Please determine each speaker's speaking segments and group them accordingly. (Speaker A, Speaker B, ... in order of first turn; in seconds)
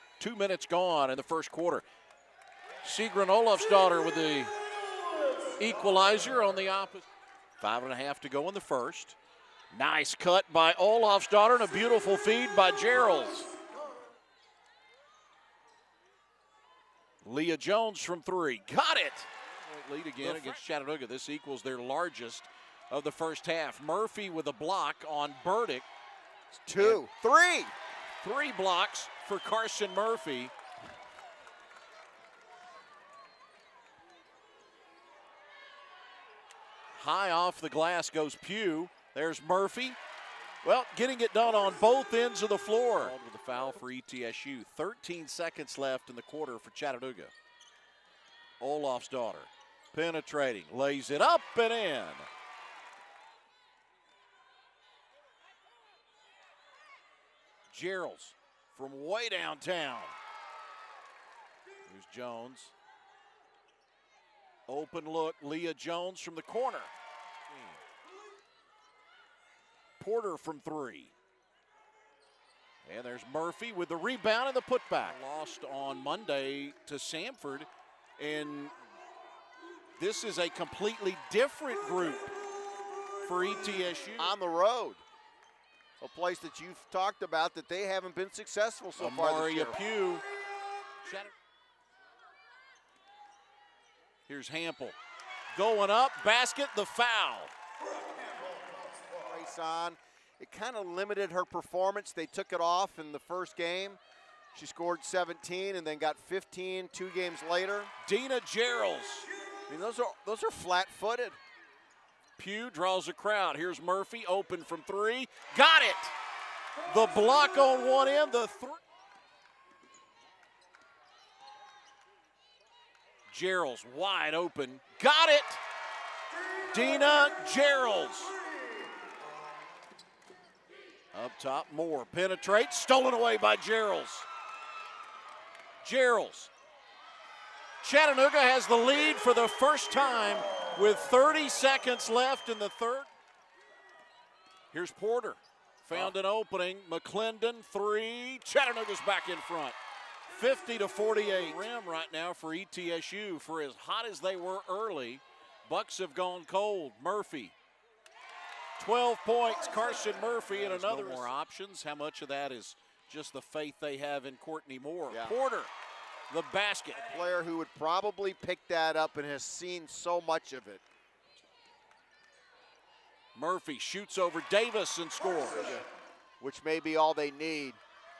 Speaker A: 0.2-1.8, 2.8-4.5, 5.6-7.0, 7.6-9.2, 9.7-13.5, 17.2-25.9, 26.8-27.0, 28.2-30.5, 36.9-40.0, 40.6-47.3, 48.6-52.3, 57.7-60.1, 61.8-62.7, 64.7-66.9, 67.5-67.8, 70.0-71.1, 72.8-78.7, 80.0-82.3, 83.2-84.3, 89.0-90.2, 91.0-91.3, 94.3-95.0, 95.5-97.5, 108.0-109.3, 112.4-116.1, 116.8-118.8, 123.3-125.6, 126.7-128.3, 131.1-134.3, 135.8-136.5, 137.8-143.1, 144.7-149.8, 150.3-157.5, 158.8-165.7, 166.3-167.2, 173.3-175.8
Speaker B: 26.5-27.7, 84.2-85.0, 86.0-89.8, 99.1-104.0, 104.5-107.9, 109.7-111.4, 160.5-161.3, 165.1-165.3, 167.0-170.8, 176.4-177.8